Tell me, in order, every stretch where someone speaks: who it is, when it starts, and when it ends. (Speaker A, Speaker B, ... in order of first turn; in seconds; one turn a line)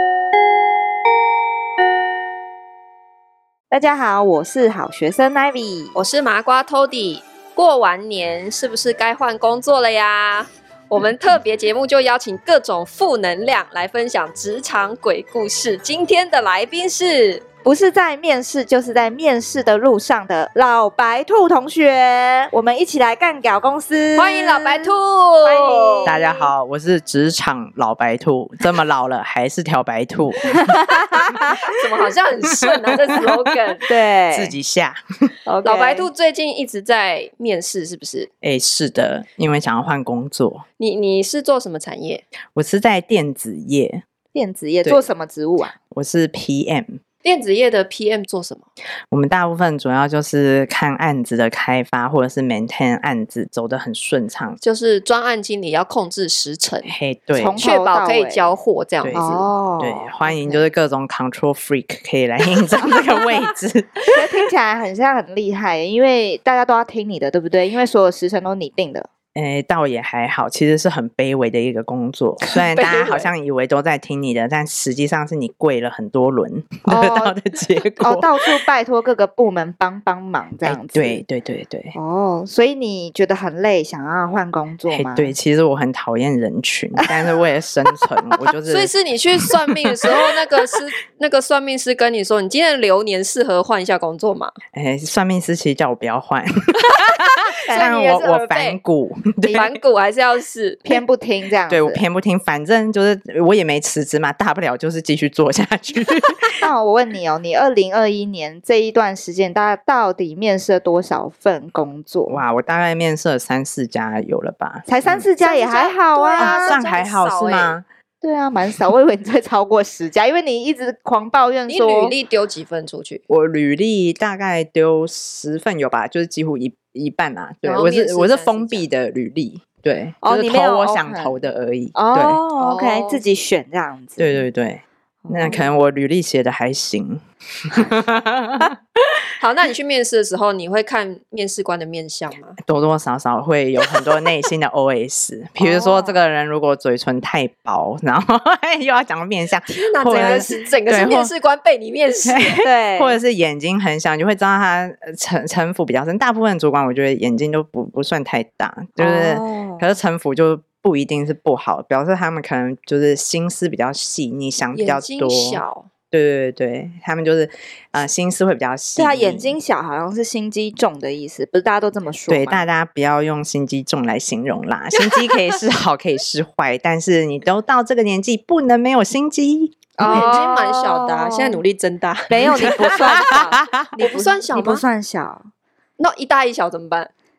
Speaker A: 3.7-6.0
Speaker B: 6.0-17.4
Speaker A: 17.6-26.5
Speaker B: 24.2-26.1
Speaker C: 26.1-30.8
Speaker A: 30.6-31.6
Speaker B: 31.5-33.9
Speaker A: 33.9-34.6
Speaker C: 34.3-35.0
Speaker A: 35.5-36.1
Speaker B: 35.6-38.3
Speaker C: 38.4-40.6
Speaker B: 40.8-42.2
Speaker C: 42.5-44.0
Speaker A: 44.3-45.8
Speaker C: 45.9-47.0
Speaker B: 47.2-48.6
Speaker C: 49.1-54.6
Speaker B: 54.6-56.9
Speaker C: 56.9-57.6
Speaker A: 57.4-58.5
Speaker B: 57.6-59.5
Speaker C: 59.0-64.4
Speaker A: 59.1-60.7
Speaker A: 64.1-69.1
Speaker C: 69.3-78.4
Speaker B: 72.4-73.3
Speaker A: 76.9-77.4
Speaker A: 78.0-81.2
Speaker C: 80.6-82.0
Speaker A: 82.0-85.3
Speaker C: 84.9-88.9
Speaker B: 88.7-94.5
Speaker C: 89.7-90.1
Speaker C: 94.7-99.8
Speaker B: 97.7-98.8
Speaker B: 99.5-101.0
Speaker A: 100.9-102.0
Speaker C: 101.7-106.7
Speaker A: 106.6-112.4
Speaker C: 112.3-115.3
Speaker A: 114.9-116.8
Speaker B: 115.4-117.8
Speaker C: 116.4-117.8
Speaker A: 118.2-122.1
Speaker B: 121.7-123.2
Speaker C: 123.3-132.4
Speaker B: 127.6-128.9
Speaker A: 130.2-131.3
Speaker A: 131.9-134.4
Speaker B: 132.6-133.2
Speaker C: 134.2-139.2
Speaker A: 135.2-135.7
Speaker B: 139.4-142.6
Speaker C: 142.7-151.3
Speaker A: 145.6-146.2
Speaker B: 149.7-152.6
Speaker A: 150.1-150.7
Speaker C: 152.3-169.5
Speaker A: 152.6-153.2
Speaker A: 159.0-159.9
Speaker B: 164.8-165.9
Speaker A: 169.0-172.7
Speaker C: 172.3-180.3
Speaker A: 180.0-181.6
Speaker B: 180.0-183.0
Speaker A: 182.3-185.5
Speaker C: 182.6-183.9
Speaker B: 184.0-184.8
Speaker B: 186.0-187.1